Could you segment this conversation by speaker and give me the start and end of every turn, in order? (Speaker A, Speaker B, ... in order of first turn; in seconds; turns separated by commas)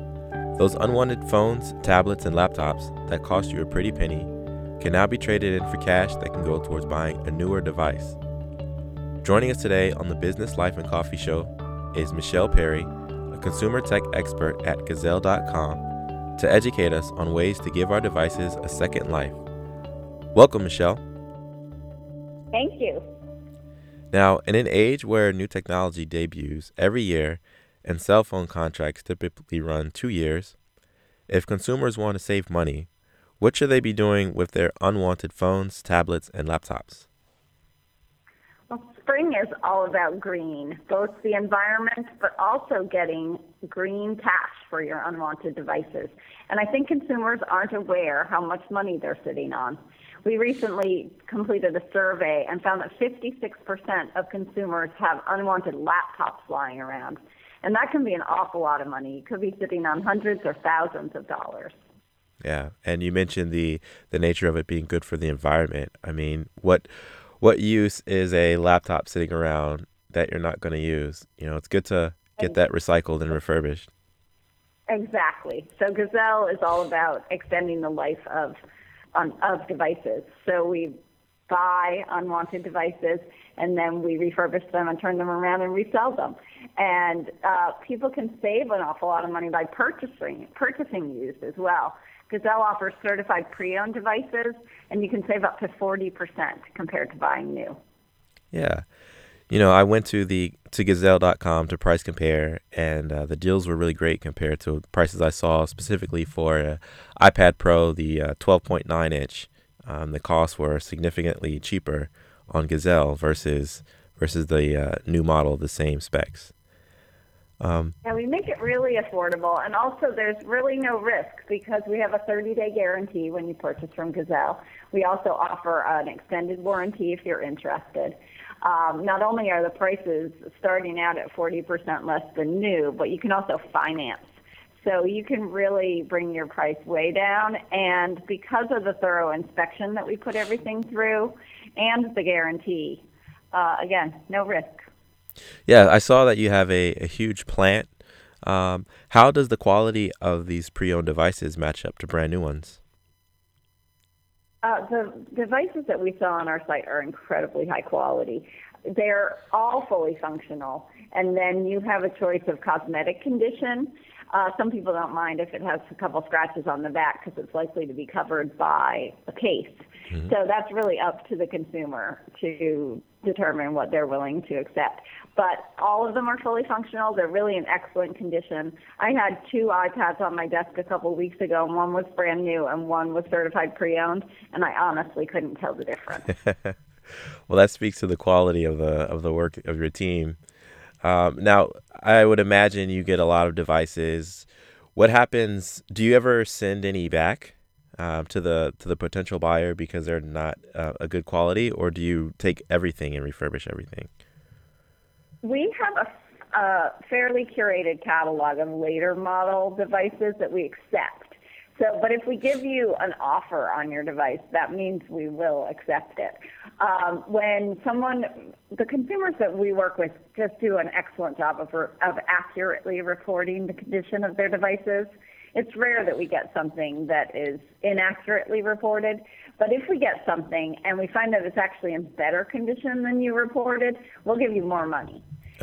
Speaker A: 0.6-8.2, Speaker A: 9.2-15.8, Speaker A: 16.4-19.4, Speaker A: 20.3-21.0, Speaker B: 22.5-23.0, Speaker A: 24.1-30.6, Speaker A: 31.3-32.9, Speaker A: 33.4-37.0, Speaker B: 38.7-61.8, Speaker A: 62.4-66.9, Speaker A: 67.4-73.9, Speaker B: 74.9-78.6, Speaker B: 79.1-81.0, Speaker B: 81.5-97.8, Speaker A: 98.5-98.8, Speaker A: 99.5-116.5, Speaker A: 117.6-117.9, Speaker B: 118.0-134.3, Speaker B: 134.8-144.9, Speaker A: 145.7-147.9, Speaker A: 148.4-152.8, Speaker B: 154.6-186.3, Speaker A: 186.5-186.7, Speaker A: 187.5-190.4, Speaker A: 191.0-204.1, Speaker B: 205.4-235.2